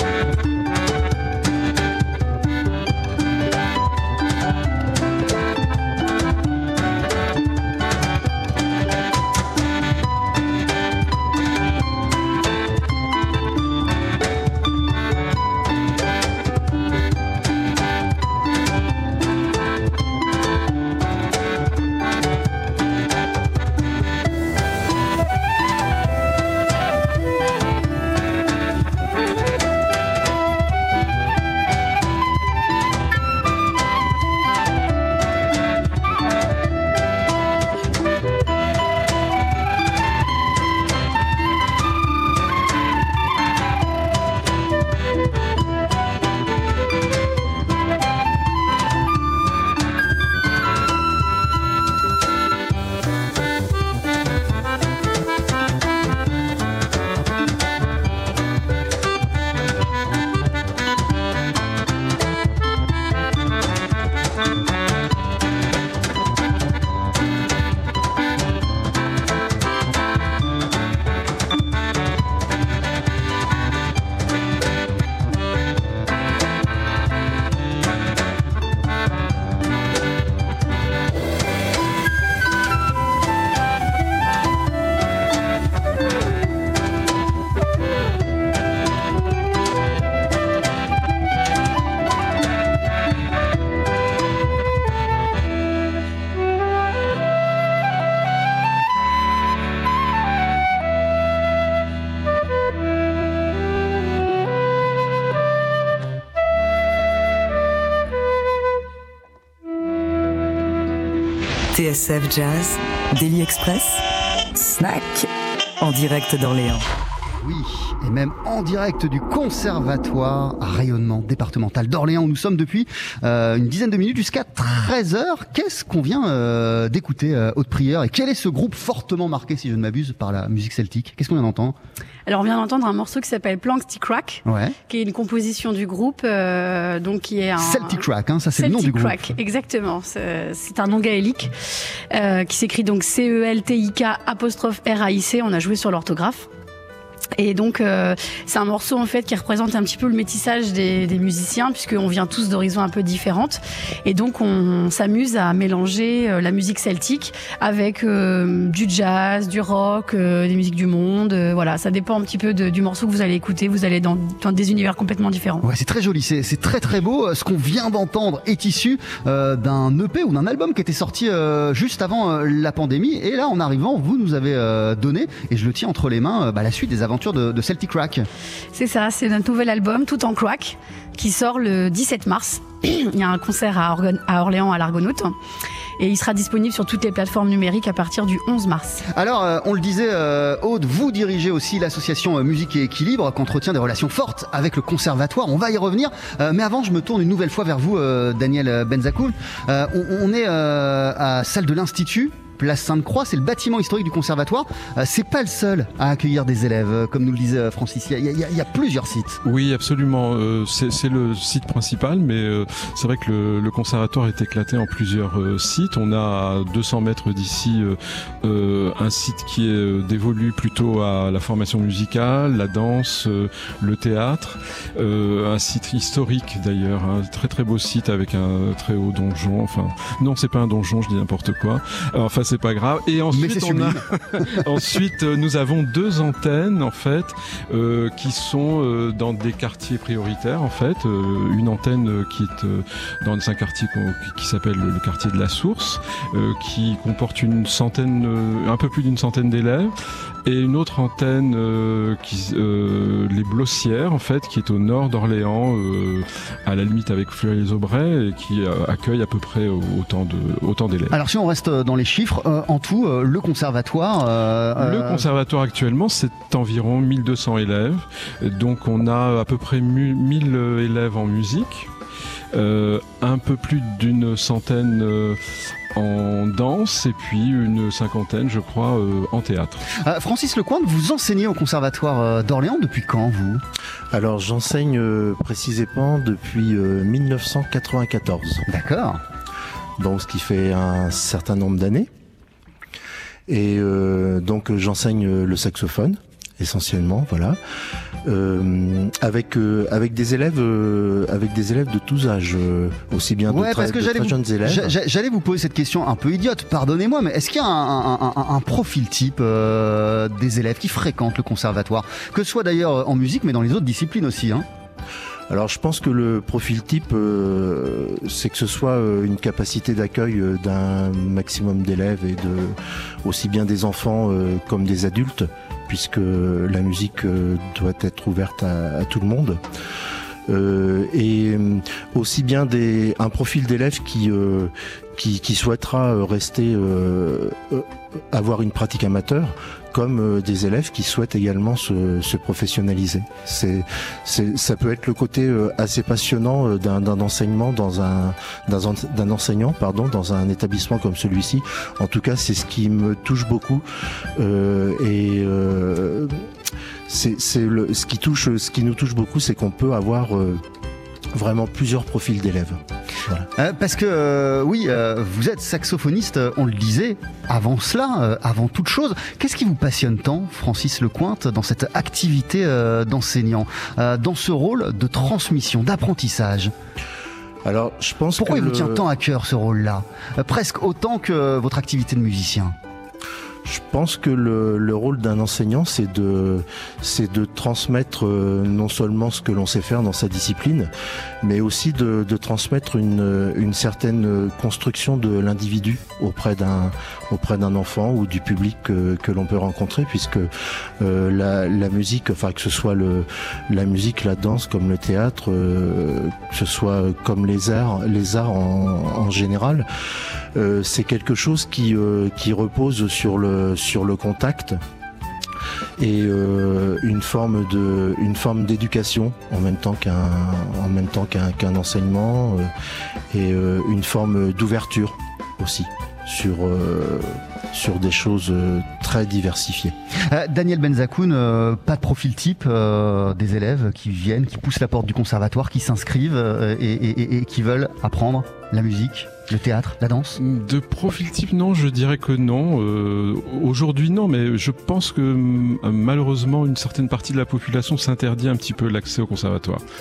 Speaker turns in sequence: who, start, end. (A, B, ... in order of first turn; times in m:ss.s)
1:51.7-1:54.0 A
1:54.6-1:55.3 A
1:55.8-1:56.8 A
1:57.4-2:11.8 B
2:12.2-2:18.0 C
2:14.4-2:14.7 B
2:17.6-2:19.2 B
2:18.6-2:21.5 C
2:22.1-2:26.5 C
2:27.4-2:45.6 C
2:45.6-2:58.3 B
2:58.7-3:05.3 C
3:06.0-3:09.0 C
3:09.1-3:29.4 B
3:29.4-4:09.9 D
3:53.3-3:54.5 B
4:10.4-4:21.1 D
4:21.1-4:25.2 B
4:24.8-4:31.9 D
4:32.5-4:35.4 D
4:35.9-4:39.8 D
4:40.0-4:43.6 B
4:44.1-4:48.6 E
4:48.7-4:49.2 B
4:50.0-4:52.1 E
4:53.5-4:57.6 E
4:58.2-5:04.9 E
5:03.5-5:14.6 B
5:15.5-5:29.6 E
5:30.5-5:53.8 E
5:54.4-5:56.4 E
5:57.1-6:00.6 E
6:01.3-6:03.5 E
6:03.6-6:16.7 B
6:17.6-6:19.0 E
6:18.4-6:22.7 B
6:23.6-6:30.9 E
6:31.4-6:49.8 E
6:50.5-6:54.8 E
6:56.0-7:02.7 E
7:03.3-7:09.9 E
7:10.3-7:20.4 B
7:20.4-7:29.8 D